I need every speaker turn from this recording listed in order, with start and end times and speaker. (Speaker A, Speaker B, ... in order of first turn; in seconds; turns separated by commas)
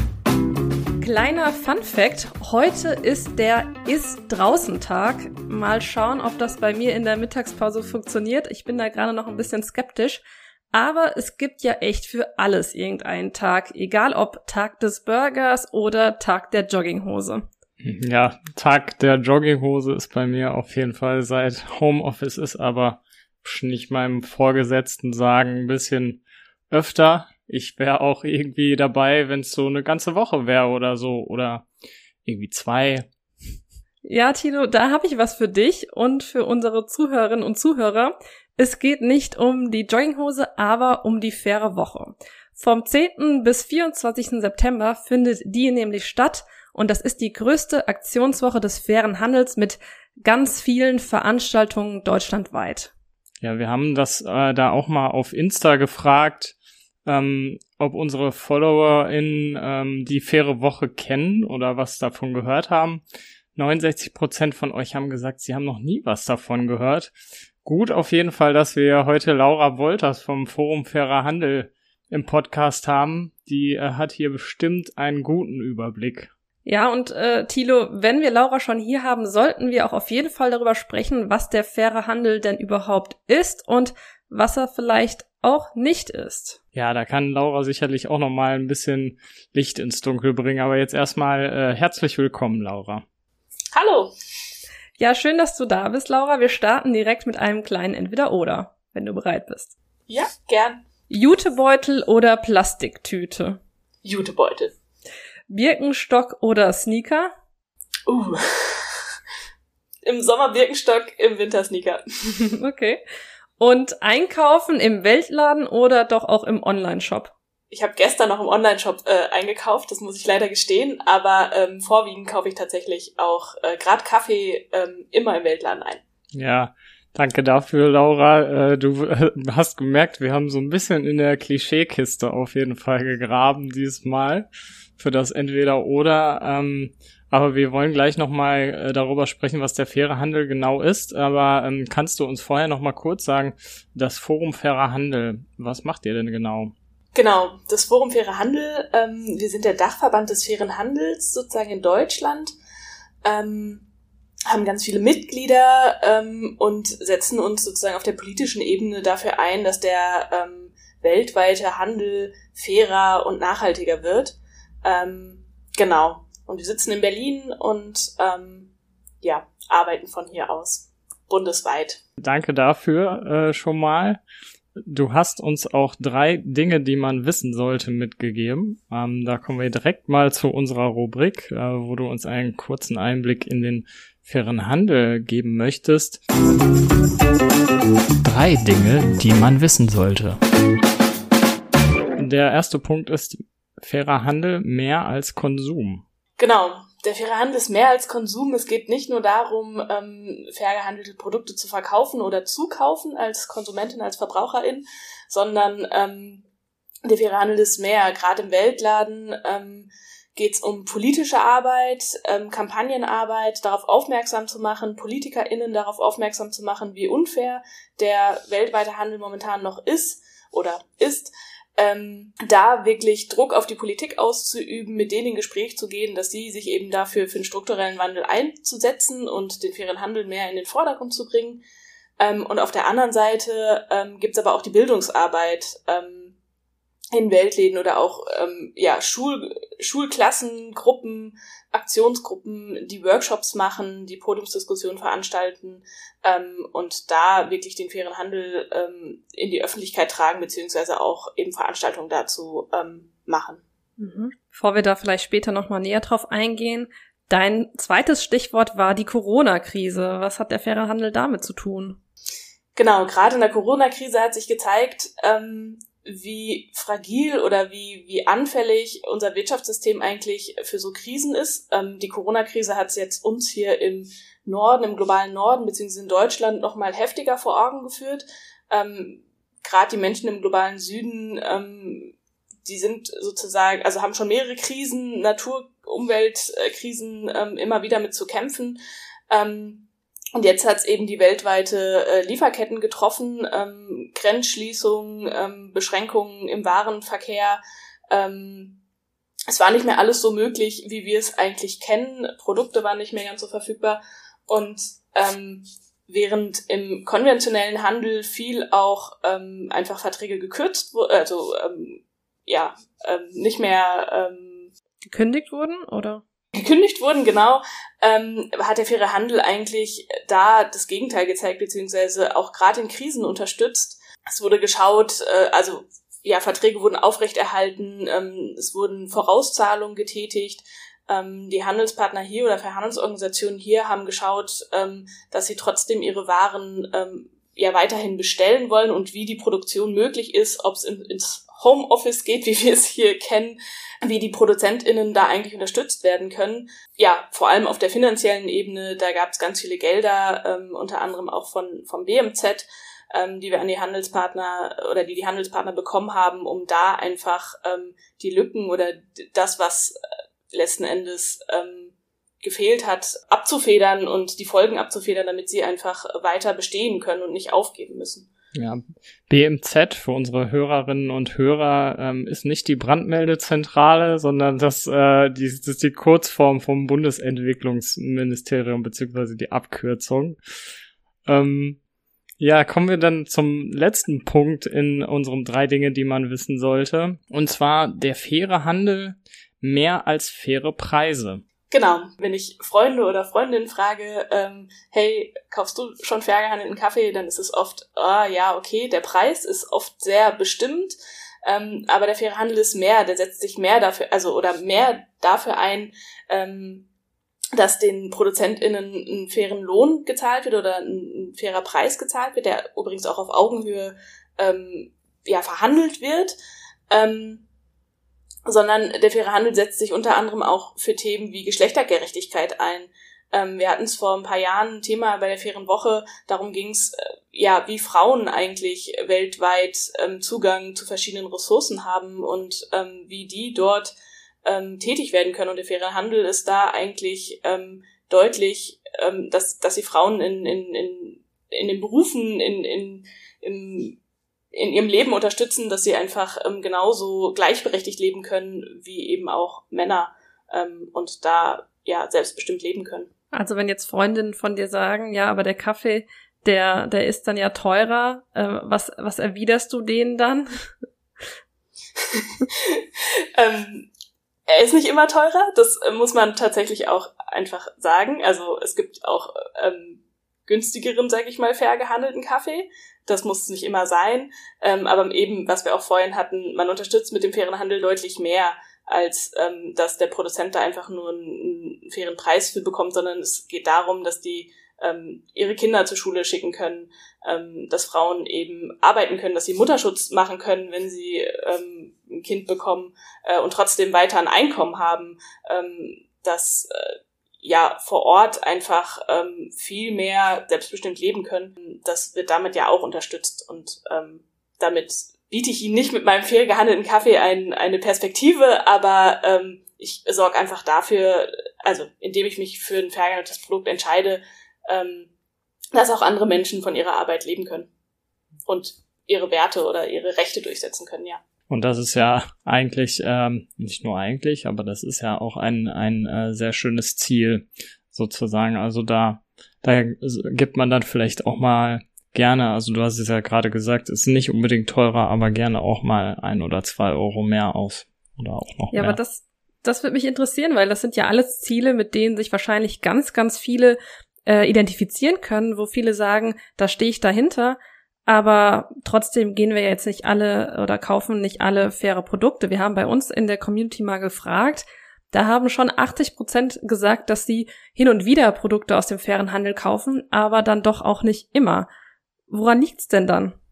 Speaker A: 1.0-17.4, Speaker B: 17.8-31.7, Speaker B: 32.2-33.1, Speaker A: 34.0-52.9, Speaker B: 53.4-63.0, Speaker B: 63.5-67.1, Speaker B: 67.6-76.3, Speaker A: 76.7-86.6, Speaker B: 86.7-93.0, Speaker C: 93.7-94.1, Speaker A: 95.0-99.7, Speaker C: 100.1-100.8, Speaker A: 101.1-103.6, Speaker C: 104.0-104.8, Speaker A: 105.5-107.3, Speaker C: 108.1-109.1, Speaker C: 110.0-112.0, Speaker A: 112.4-113.0, Speaker A: 113.6-117.3, Speaker C: 117.7-126.0, Speaker B: 126.3-146.7, Speaker C: 147.2-152.5, Speaker C: 153.2-153.8, Speaker C: 154.5-168.7, Speaker C: 169.2-172.0, Speaker B: 172.2-174.2, Speaker B: 174.8-186.2, Speaker B: 188.2-190.4, Speaker B: 192.2-196.1, Speaker C: 196.4-206.4, Speaker C: 207.1-231.6, Speaker C: 232.2-236.4, Speaker C: 237.1-253.6, Speaker A: 254.0-262.0, Speaker C: 262.8-288.8, Speaker C: 289.3-298.8, Speaker C: 299.5-314.7, Speaker A: 315.1-316.2, Speaker C: 316.5-360.0, Speaker C: 360.5-368.3, Speaker B: 368.6-380.4, Speaker B: 381.3-381.8, Speaker B: 382.4-391.4, Speaker C: 391.7-406.9, Speaker C: 407.6-416.4, Speaker C: 416.9-417.4, Speaker C: 418.5-444.0, Speaker C: 444.5-453.1, Speaker A: 453.3-460.5, Speaker C: 462.0-463.9, Speaker C: 464.5-515.1, Speaker C: 515.7-517.7, Speaker C: 518.5-521.2, Speaker B: 521.5-539.0, Speaker A: 538.7-561.7, Speaker A: 562.3-563.4